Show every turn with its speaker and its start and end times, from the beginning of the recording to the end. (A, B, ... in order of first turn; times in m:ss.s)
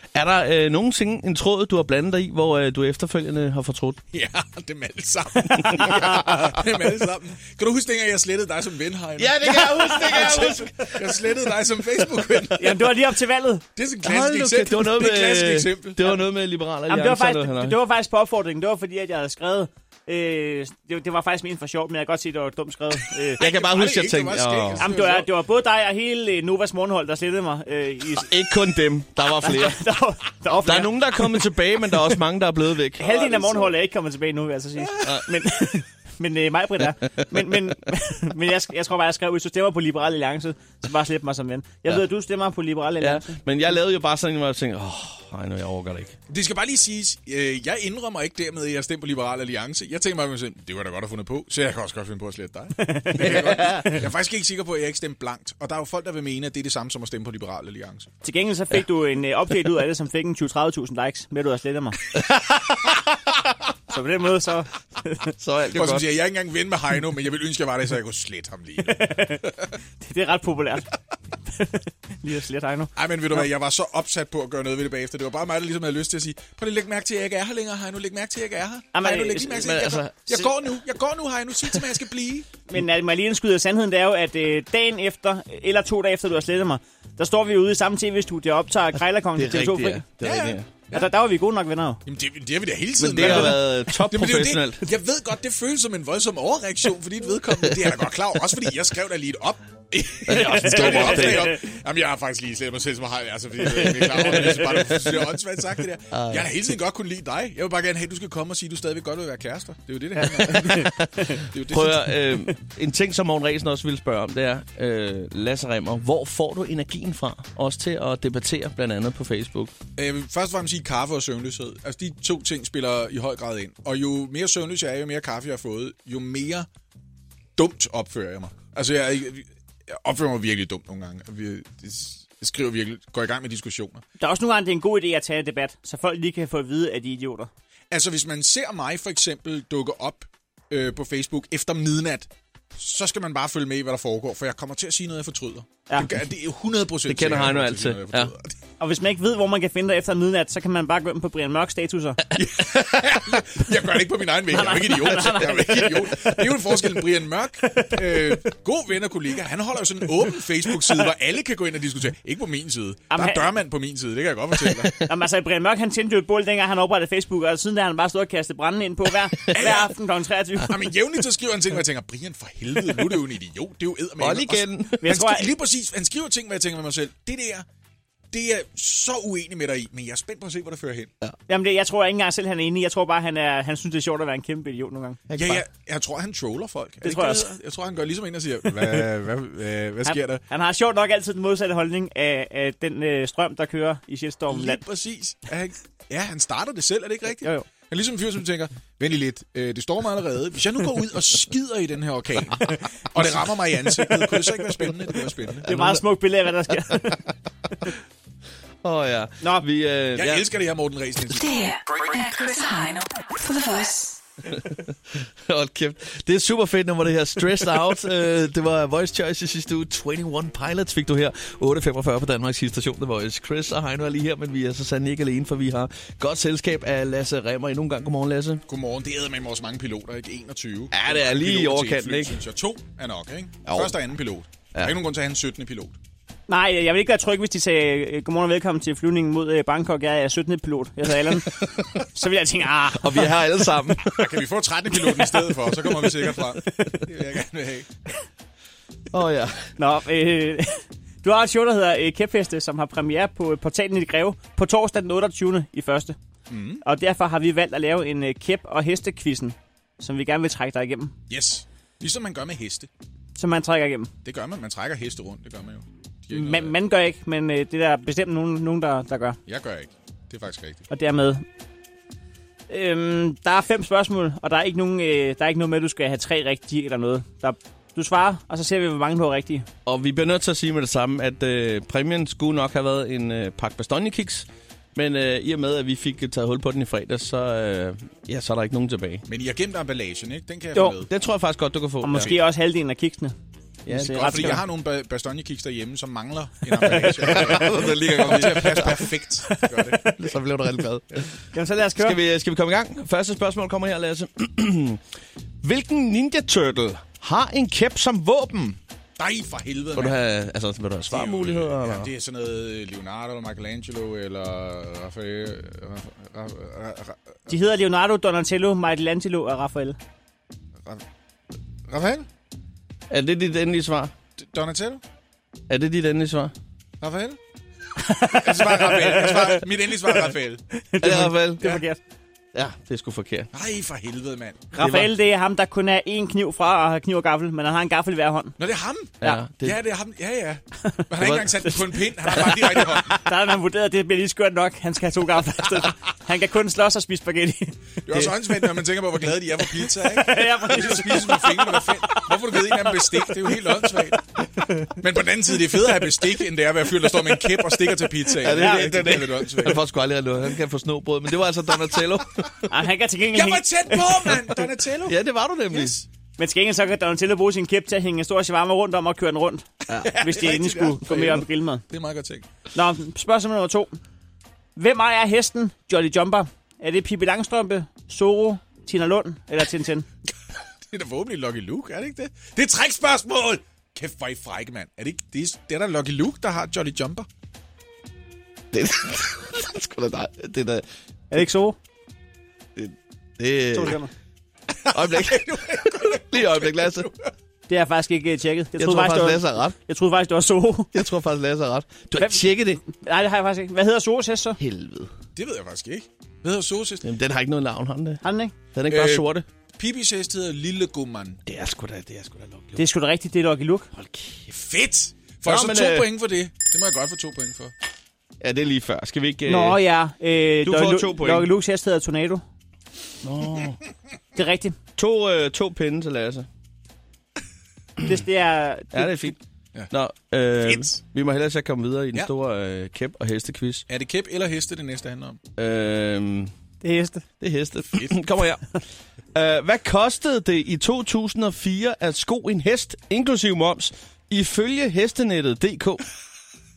0:00.1-0:04.0 A
0:04.1-0:13.0 B
0:09.2-0:11.0 A
0:09.8-0:10.6 C
0:12.6-0:13.6 C
0:13.8-0:16.2 B
0:14.0-0:17.8 A
0:16.9-0:23.4 C
0:23.4-0:25.3 B
0:23.4-0:24.9 A
0:24.8-0:28.4 C
0:28.2-0:29.8 A
0:29.2-0:31.4 C
0:30.6-0:33.3 A
0:33.0-0:43.4 C
0:33.0-0:33.7 B
0:35.0-0:35.3 A
0:43.0-0:46.1 A
0:46.3-0:58.1 B
0:52.8-0:54.0 C
0:58.2-1:02.1 C
1:02.2-1:03.0 A
1:03.9-1:05.3 C
1:05.4-1:06.0 A
1:05.7-1:09.7 B
1:08.8-1:10.9 C
1:11.5-1:13.4 C
1:13.0-1:22.5 B
1:18.9-1:19.8 C
1:19.6-1:20.3 A
1:22.7-1:30.1 C
1:29.4-1:30.7 A
1:30.2-1:31.1 B
1:30.9-1:32.0 C
1:32.0-1:52.2 B
1:33.0-1:34.8 A
1:33.2-1:33.6 C
1:40.3-1:41.5 A
1:40.4-1:41.6 C
1:43.6-1:45.0 C
1:46.1-1:46.5 A
1:50.3-1:51.1 A
1:50.4-1:51.4 C
1:51.7-1:59.7 A
2:00.0-2:06.7 B
2:07.6-2:14.0 B
2:14.2-2:17.5 C
2:17.9-2:28.6 B
2:25.9-2:26.1 C
2:27.1-2:28.3 A
2:28.8-2:32.2 C
2:32.3-2:45.0 B
2:34.5-2:36.8 C
2:37.7-2:38.4 C
2:43.1-2:43.5 C
2:44.6-2:44.9 A
2:45.0-2:50.8 C
2:49.5-2:49.9 B
2:50.6-2:57.6 B
2:54.2-2:55.1 A
2:55.0-2:55.5 C
2:58.3-3:01.1 B
3:01.5-3:05.2 C
3:05.3-3:05.6 A
3:05.3-3:10.4 B
3:07.0-3:07.5 C
3:10.0-3:14.8 C
3:14.5-3:25.6 B
3:17.4-3:17.7 C
3:24.0-3:24.5 C
3:25.6-3:26.0 A
3:25.6-3:27.2 C
3:28.8-3:30.4 A
3:30.1-3:31.9 B
3:32.0-3:34.2 D
3:34.5-3:48.6 A
3:48.7-3:56.0 B
3:50.9-3:52.4 A
3:53.6-3:53.9 A
3:56.5-4:03.4 C
4:01.4-4:02.0 A
4:02.9-4:04.2 A
4:04.0-4:07.9 B
4:05.0-4:06.4 C
4:09.1-4:09.7 A
4:09.8-4:16.2 C
4:16.5-4:16.8 B
4:16.8-4:21.1 C
4:21.3-4:22.9 B
4:23.4-4:24.1 C
4:24.2-4:26.8 B
4:26.3-4:29.4 C
4:29.4-4:30.9 B
4:30.9-4:31.4 C
4:32.7-4:39.6 C
4:39.8-4:49.2 A
4:49.3-4:51.1 B
4:51.0-4:52.3 A
4:52.0-4:53.3 C
4:53.8-4:54.6 A
4:53.9-4:54.6 C
4:54.2-5:00.1 B
4:57.0-4:59.0 A
4:57.3-4:57.7 C
4:59.5-5:00.1 C
5:00.1-5:01.3 A
5:01.5-5:02.2 C
5:01.9-5:05.0 A
5:05.6-5:08.8 A
5:09.2-5:10.2 B
5:09.9-5:12.1 A
5:11.1-5:17.5 B
5:17.5-5:20.0 C
5:21.9-5:22.2 B
5:23.1-5:24.1 A
5:24.4-5:25.0 B
5:25.7-5:26.5 A
5:27.0-5:27.4 B
5:28.0-5:30.3 C
5:28.3-5:30.6 B
5:30.9-5:32.0 C
5:31.0-5:31.6 A
5:32.5-5:33.5 A
5:33.5-5:34.7 B
5:34.7-5:38.6 C
5:34.8-5:35.1 A
5:38.6-5:43.1 B
5:39.2-5:39.8 A
5:41.2-5:41.8 A
5:42.3-5:48.3 C
5:48.1-5:54.2 B
5:49.8-5:53.3 C
5:55.0-5:59.8 B
5:58.4-6:02.6 A
5:58.5-5:59.0 C
6:01.8-6:02.1 B
6:02.7-6:04.7 C
6:03.3-6:05.2 B
6:05.0-6:06.0 A
6:05.7-6:06.0 B
6:06.4-6:11.8 C
6:09.9-6:12.5 B
6:12.7-6:14.0 C
6:14.8-6:20.1 C
6:20.9-6:27.3 B
6:28.7-6:30.8 A
6:31.3-6:31.8 C
6:32.8-6:34.0 A
6:33.7-6:34.1 C
6:34.7-6:37.3 B
6:34.9-6:37.1 A
6:37.7-6:40.9 C
6:38.8-6:39.8 A
6:40.9-6:42.8 A
6:42.2-6:44.6 C
6:44.6-6:45.1 A
6:45.3-6:47.0 B
6:47.0-6:48.2 A
6:48.2-6:48.5 C
6:48.7-6:49.4 A
6:48.9-6:51.4 B
6:51.4-6:52.8 A
6:52.8-6:53.9 C
6:54.0-6:54.5 A
6:54.5-6:57.7 B
6:55.4-6:56.1 A
6:58.4-6:59.8 A
6:59.5-7:02.4 C
7:00.6-7:01.5 A
7:03.2-7:03.8 A
7:04.3-7:04.8 C
7:05.0-7:06.5 A
7:08.0-7:09.3 C
7:08.9-7:09.4 A
7:09.9-7:13.8 A
7:10.6-7:11.0 B
7:13.9-7:15.4 B
7:15.6-7:16.5 A
7:16.8-7:17.2 C
7:17.4-7:18.6 A
7:17.9-7:18.3 B
7:19.3-7:26.0 A